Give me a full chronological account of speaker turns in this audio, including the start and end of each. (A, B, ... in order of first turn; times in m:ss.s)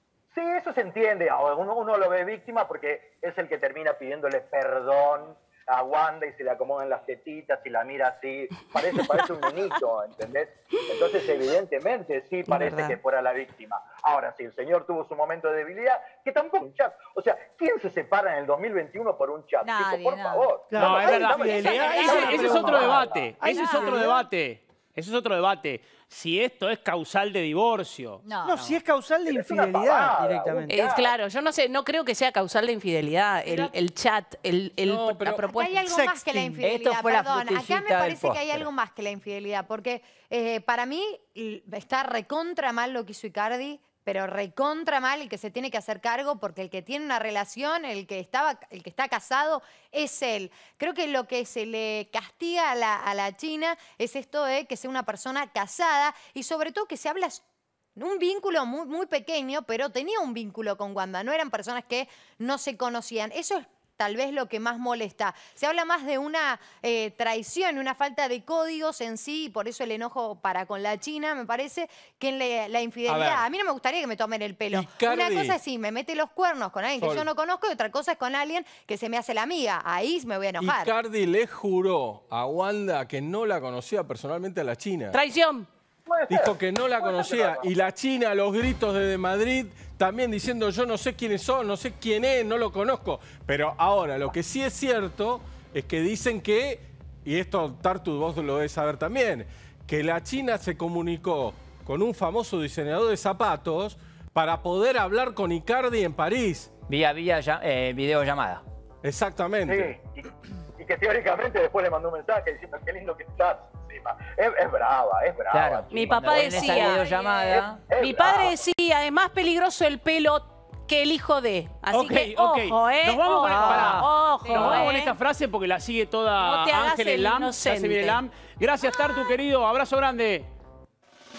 0:00.3-0:23.4 A
0:12.5-0:12.8 B
0:19.6-0:20.5 C
0:20.7-0:24.2 D
0:20.8-0:28.2 E
0:21.2-0:23.0 C
0:23.5-0:24.0 C
0:28.2-0:28.8 C
0:28.4-0:30.8 D
0:29.3-0:31.2 A
0:30.7-0:36.5 B
0:34.8-0:35.5 F
0:35.4-0:57.4 G
0:35.8-0:36.2 D
0:36.6-0:38.7 H
0:58.0-1:20.9 G
1:13.1-1:13.4 F
1:14.7-1:15.6 F
1:17.0-1:17.3 F
1:20.6-1:25.2 F
1:25.1-1:25.7 B
1:26.0-1:27.7 A
1:26.3-1:46.7 F
1:46.9-1:48.6 H
1:49.0-1:50.0 F
1:49.6-1:56.4 A
1:55.5-1:57.8 H
1:55.9-1:57.0 B
1:56.4-1:57.8 C
1:57.9-1:58.6 A
1:57.9-2:05.0 B
2:01.9-2:10.5 E
2:03.4-2:05.2 C
2:06.4-2:08.2 B
2:08.8-2:09.3 C